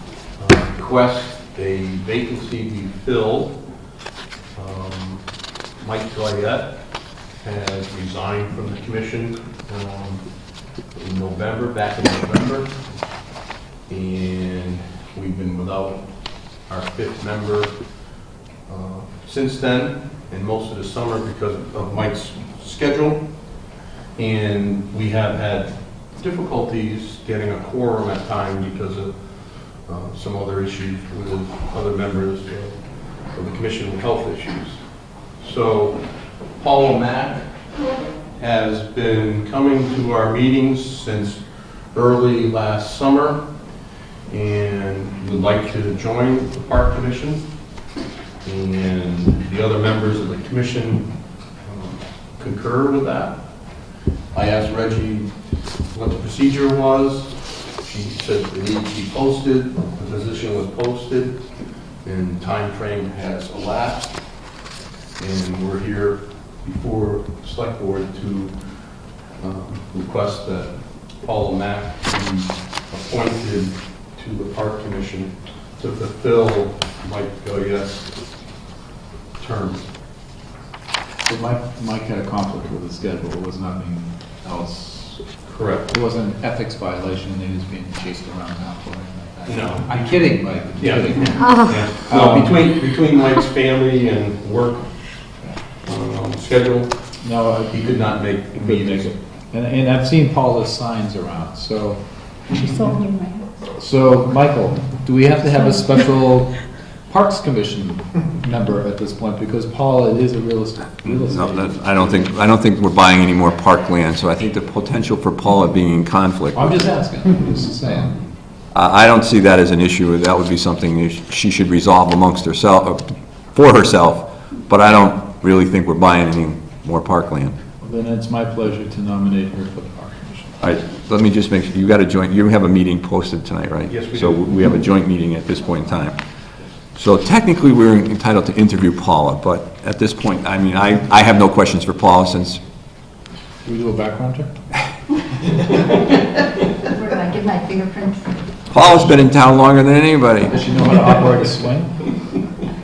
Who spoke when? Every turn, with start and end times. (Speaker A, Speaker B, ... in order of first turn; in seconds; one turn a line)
Speaker A: 0.4-3.6
Speaker A: 4.5-5.2
Speaker A: 5.8-6.8
Speaker A: 7.4-10.3
Speaker A: 10.9-13.0
Speaker A: 13.9-16.1
Speaker A: 16.7-17.8
Speaker A: 18.7-23.3
Speaker A: 24.2-34.8
Speaker A: 35.4-37.5
Speaker A: 38.4-43.5
Speaker A: 44.3-47.5
Speaker A: 48.5-53.6
Speaker A: 54.3-55.4
Speaker A: 55.9-61.4
Speaker A: 62.0-64.2
Speaker A: 65.2-68.6
Speaker A: 69.4-78.2
Speaker A: 79.4-79.8
Speaker B: 81.3-85.3
Speaker A: 85.5-85.9
Speaker B: 85.9-92.7
Speaker A: 89.5-94.9
Speaker A: 95.9-97.0
Speaker B: 97.2-102.0
Speaker A: 97.7-99.1
Speaker C: 102.5-103.5
Speaker B: 103.7-112.2
Speaker D: 111.0-116.8
Speaker B: 116.5-118.2
Speaker D: 118.7-127.6
Speaker B: 127.8-130.6
Speaker D: 130.6-136.2
Speaker A: 133.9-134.4
Speaker D: 136.9-142.6
Speaker B: 143.6-144.5
Speaker C: 146.8-148.4
Speaker D: 148.7-150.6
Speaker B: 150.5-152.1